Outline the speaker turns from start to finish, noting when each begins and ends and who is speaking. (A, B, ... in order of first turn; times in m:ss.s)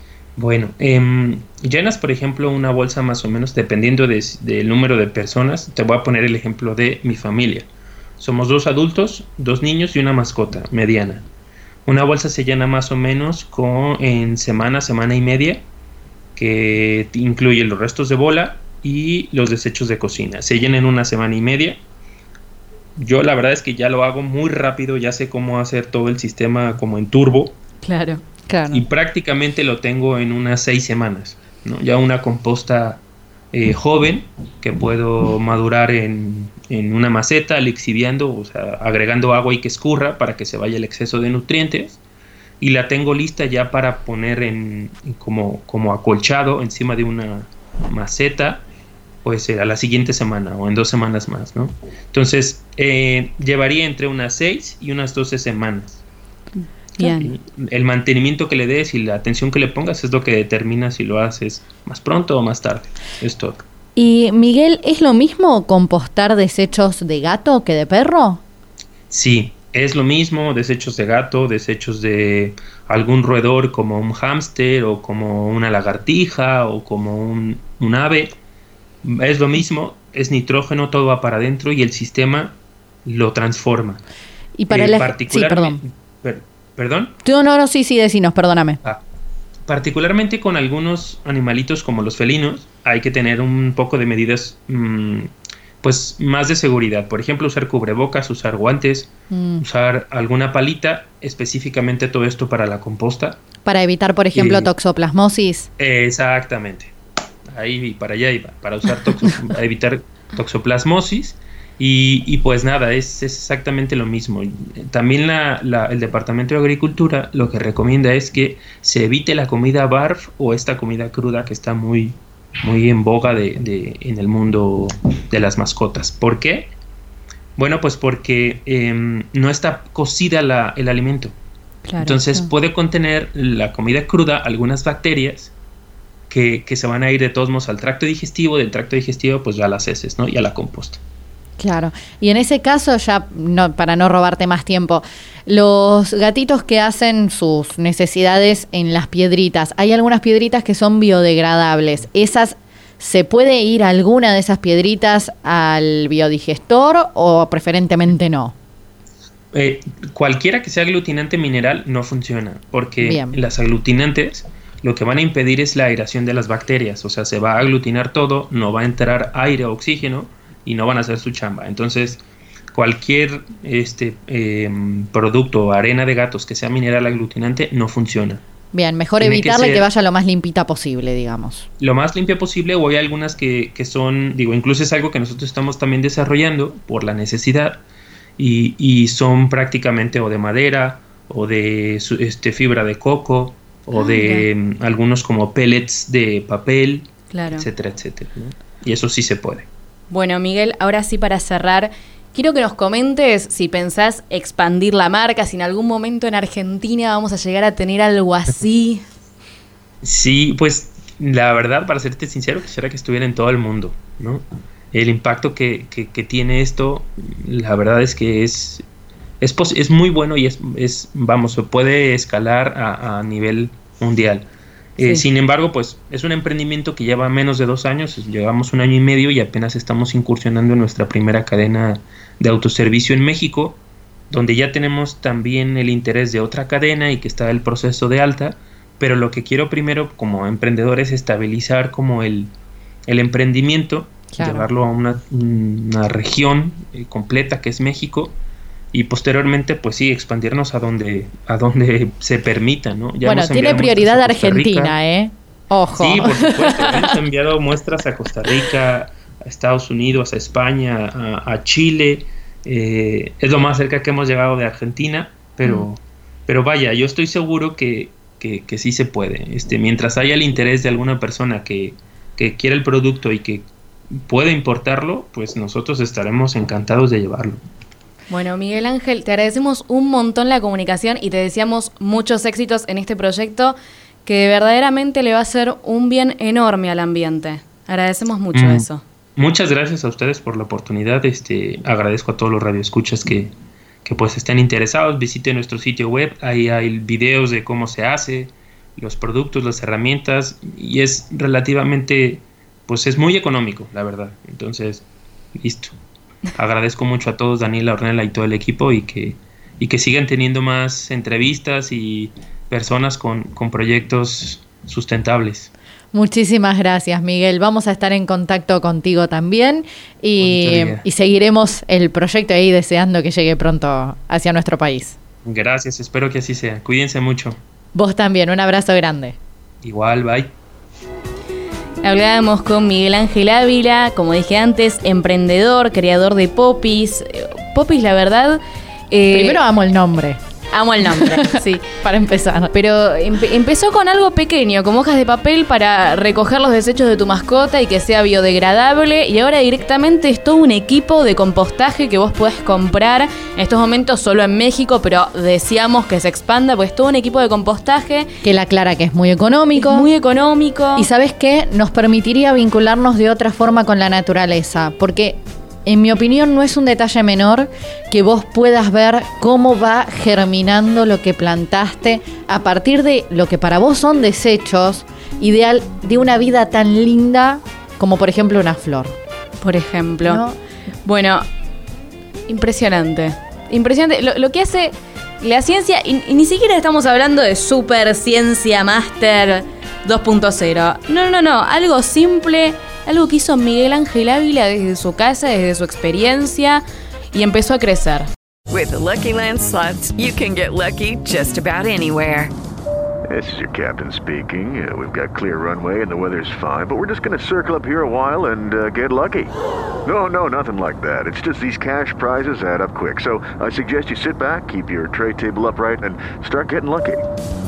0:00.4-0:11.3 A
0:11.9-0:15.7 A
0:16.4-0:21.8 A
0:23.0-0:27.6 A
0:27.8-0:28.2 B
0:28.5-0:28.8 C
0:28.7-0:42.0 A
0:42.6-0:48.6 A
0:49.2-0:56.0 A
0:56.6-0:57.3 B
0:57.0-1:03.6 A
1:04.0-1:08.4 C
1:09.1-1:18.4 A
1:19.0-1:24.0 A
1:24.6-1:25.8 C
1:24.7-1:27.2 A
1:27.2-1:28.8 C
1:29.7-1:43.4 A
1:39.3-1:39.6 C
1:43.6-1:45.7 C
1:44.3-1:44.7 A
1:45.8-1:46.9 A
1:47.5-2:06.7 A
2:07.6-2:11.4 A
2:11.9-2:12.2 B
2:12.0-2:15.5 A
2:12.2-2:12.5 C
2:16.3-2:21.0 A
2:21.6-2:38.6 C
2:39.5-2:52.2 A
2:43.0-2:43.4 C
2:52.7-2:58.4 A
2:58.7-3:01.7 C
2:59.2-2:59.9 A
3:01.8-3:07.8 A
3:08.4-3:19.7 A
3:13.9-3:14.5 B
3:17.3-3:17.7 B
3:20.1-3:29.0 B
3:30.0-3:38.8 A
3:39.4-4:02.5 A
3:45.0-3:45.3 B
4:03.1-4:08.4 A
4:04.3-4:04.7 C
4:08.9-4:15.0 A
4:13.2-4:17.2 C
4:16.0-4:33.7 A
4:34.2-4:37.6 A
4:38.3-4:49.0 B
4:48.5-4:53.5 A
4:54.0-5:05.9 A
5:06.6-5:15.7 A
5:16.1-5:25.2 C
5:20.4-5:21.0 A
5:25.4-5:27.6 A
5:28.0-5:29.4 C
5:29.8-5:30.5 A
5:32.0-5:39.6 B
5:39.3-5:40.4 C
5:40.7-5:41.8 B
5:41.0-5:42.7 C
5:42.7-5:58.3 B
5:58.4-6:00.1 C
5:59.8-6:01.1 B
6:01.0-6:19.2 C
6:19.6-6:20.4 B
6:20.2-6:20.6 C
6:21.0-6:21.4 B
6:22.5-6:38.3 B
6:38.7-6:42.5 D
6:43.3-6:49.5 E
6:50.0-6:57.2 E